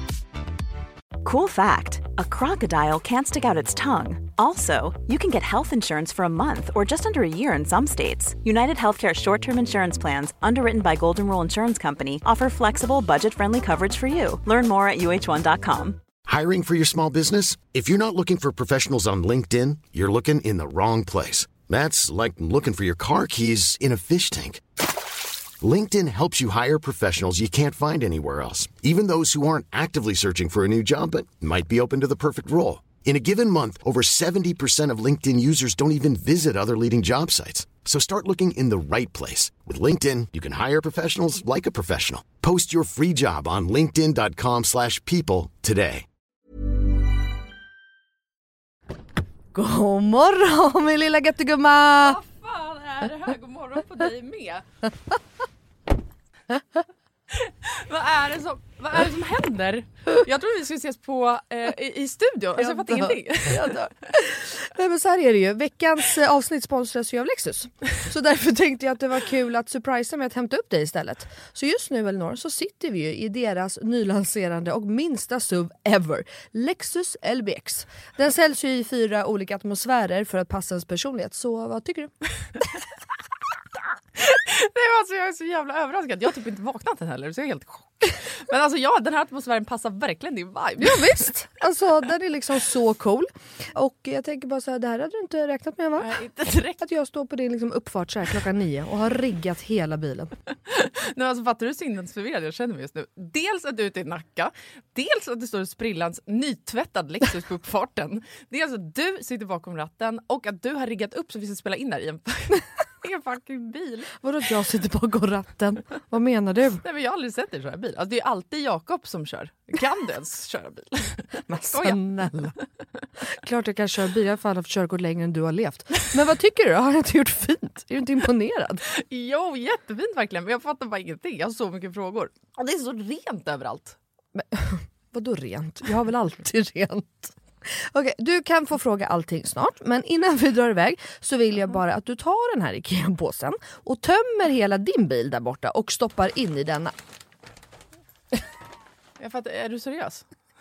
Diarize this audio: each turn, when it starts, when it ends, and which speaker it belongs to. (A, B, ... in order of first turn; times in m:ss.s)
0:01.2-0:16.0 A
0:16.2-0:24.6 B
0:25.6-0:46.1 B
0:49.5-0:52.2 C
0:52.0-0:54.7 D
0:57.3-1:03.8 D
1:02.6-1:22.1 C
1:24.2-1:31.3 D
1:30.8-1:36.1 C
1:36.0-1:36.8 D
1:36.8-1:40.3 C
1:40.7-1:54.1 D
1:54.2-1:56.8 C
1:56.8-2:02.0 D
2:01.5-2:02.6 C
2:03.3-2:08.8 C
2:08.9-2:14.0 D
2:14.4-2:26.9 C
2:29.2-2:30.2 D